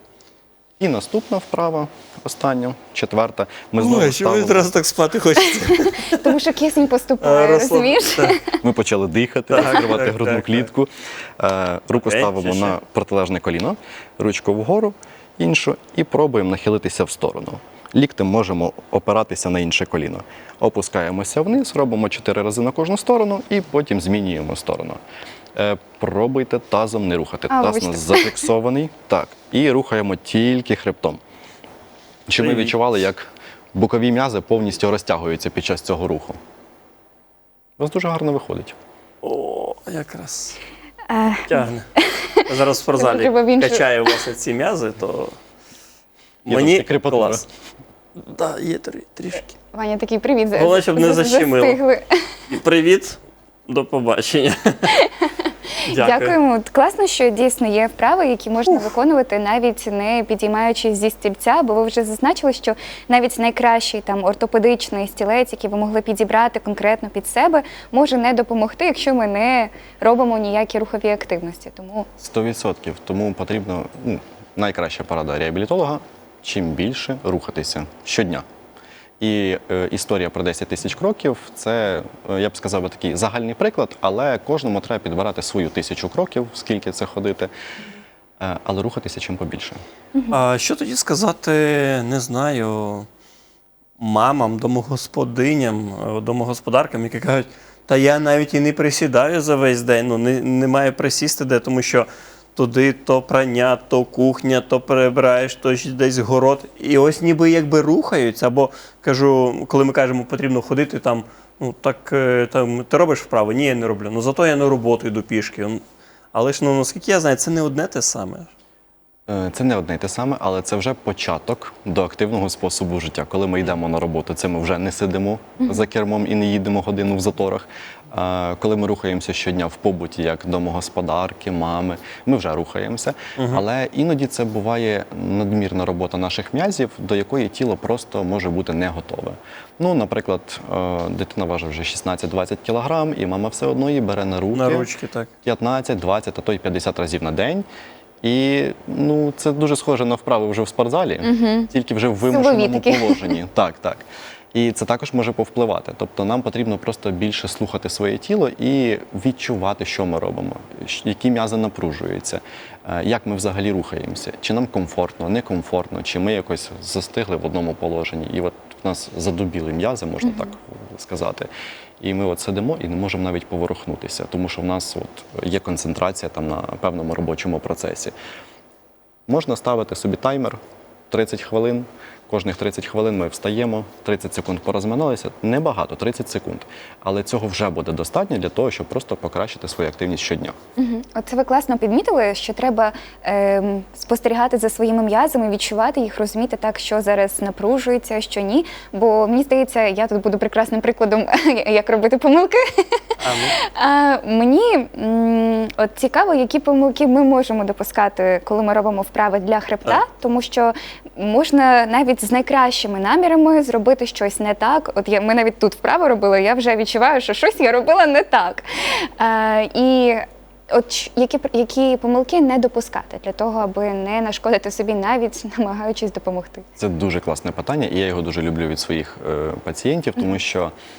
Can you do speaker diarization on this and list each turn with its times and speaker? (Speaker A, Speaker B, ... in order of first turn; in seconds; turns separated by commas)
Speaker A: 0.8-4.7, Speaker B: 3.8-6.4, Speaker C: 6.0-8.6, Speaker B: 7.2-8.4, Speaker A: 8.6-25.0, Speaker B: 9.5-10.7, Speaker B: 11.9-12.8, Speaker A: 25.6-31.2, Speaker C: 27.5-28.4, Speaker A: 32.3-36.4, Speaker B: 32.4-32.7, Speaker A: 37.8-38.8, Speaker B: 39.2-40.6, Speaker C: 41.1-42.4, Speaker B: 41.5-45.4, Speaker C: 43.0-44.0, Speaker B: 46.5-47.5, Speaker A: 46.5-47.4, Speaker B: 48.2-49.5, Speaker C: 49.7-52.4, Speaker B: 50.6-51.8, Speaker B: 52.5-55.1, Speaker C: 55.1-72.1, Speaker B: 55.9-56.4, Speaker A: 72.2-78.5, Speaker A: 79.2-87.5, Speaker A: 88.4-89.8, Speaker B: 90.3-93.1, Speaker B: 94.0-115.8, Speaker B: 116.3-118.5, Speaker A: 119.3-144.9, Speaker B: 133.4-133.7, Speaker B: 144.5-145.3, Speaker A: 145.4-147.7, Speaker A: 148.2-154.0, Speaker C: 151.2-151.7, Speaker C: 152.3-153.4, Speaker A: 154.5-171.5, Speaker C: 170.2-170.5, Speaker A: 172.0-178.1, Speaker A: 179.3-190.6, Speaker C: 190.8-202.8, Speaker B: 203.2-203.6, Speaker C: 203.6-226.7, Speaker A: 226.8-230.7